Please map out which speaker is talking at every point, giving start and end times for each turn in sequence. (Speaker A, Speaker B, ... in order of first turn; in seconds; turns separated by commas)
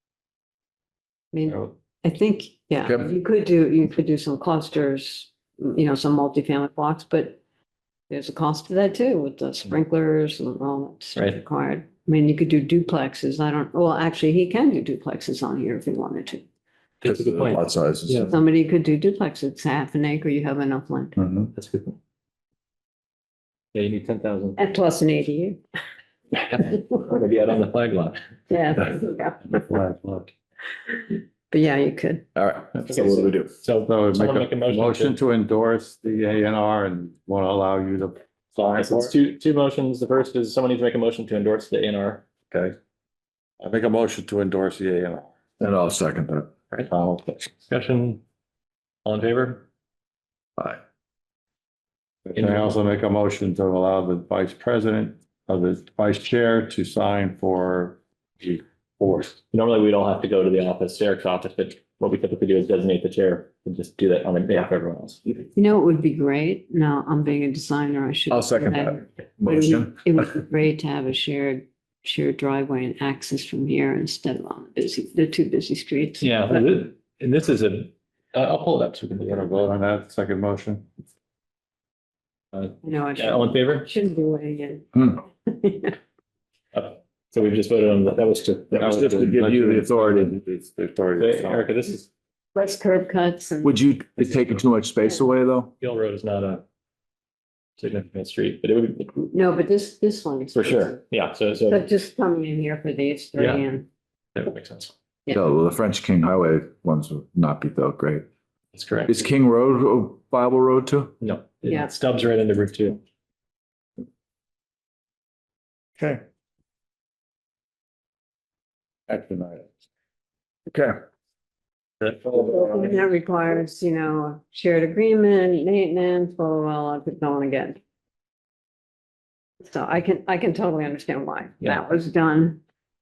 Speaker A: 1.3-7.4, Speaker B: 2.9-3.1, Speaker A: 8.1-16.4, Speaker C: 17.0-18.3, Speaker B: 17.0-18.4, Speaker A: 18.3-21.2, Speaker D: 21.2-21.5, Speaker C: 21.5-22.0, Speaker C: 23.7-24.6, Speaker A: 24.6-25.6, Speaker C: 26.4-28.2, Speaker A: 28.5-29.6, Speaker D: 29.5-30.3, Speaker A: 30.9-32.2, Speaker B: 32.3-33.5, Speaker D: 32.8-33.1, Speaker C: 32.9-35.1, Speaker D: 33.8-39.1, Speaker C: 38.7-42.2, Speaker D: 43.6-45.3, Speaker B: 45.6-47.4, Speaker C: 47.7-48.2, Speaker C: 49.0-49.6, Speaker D: 52.2-59.4, Speaker C: 52.4-52.6, Speaker C: 59.5-65.3, Speaker A: 65.5-76.7, Speaker B: 68.3-70.2, Speaker C: 76.2-79.7, Speaker D: 79.3-80.8, Speaker C: 82.5-83.9, Speaker A: 82.8-86.0, Speaker C: 86.7-88.9, Speaker B: 88.7-90.3, Speaker D: 88.8-91.7, Speaker C: 91.2-92.0, Speaker A: 92.5-93.8, Speaker B: 93.6-95.7, Speaker C: 95.8-96.6, Speaker C: 97.8-99.2, Speaker A: 99.3-101.0, Speaker C: 100.5-101.9, Speaker A: 101.7-103.8, Speaker C: 103.4-103.6, Speaker C: 104.3-104.9, Speaker B: 105.3-108.3, Speaker C: 108.7-109.1, Speaker B: 109.1-111.1, Speaker C: 111.2-113.0, Speaker D: 119.1-119.7, Speaker D: 122.2-123.0, Speaker A: 122.3-127.8, Speaker A: 129.6-132.6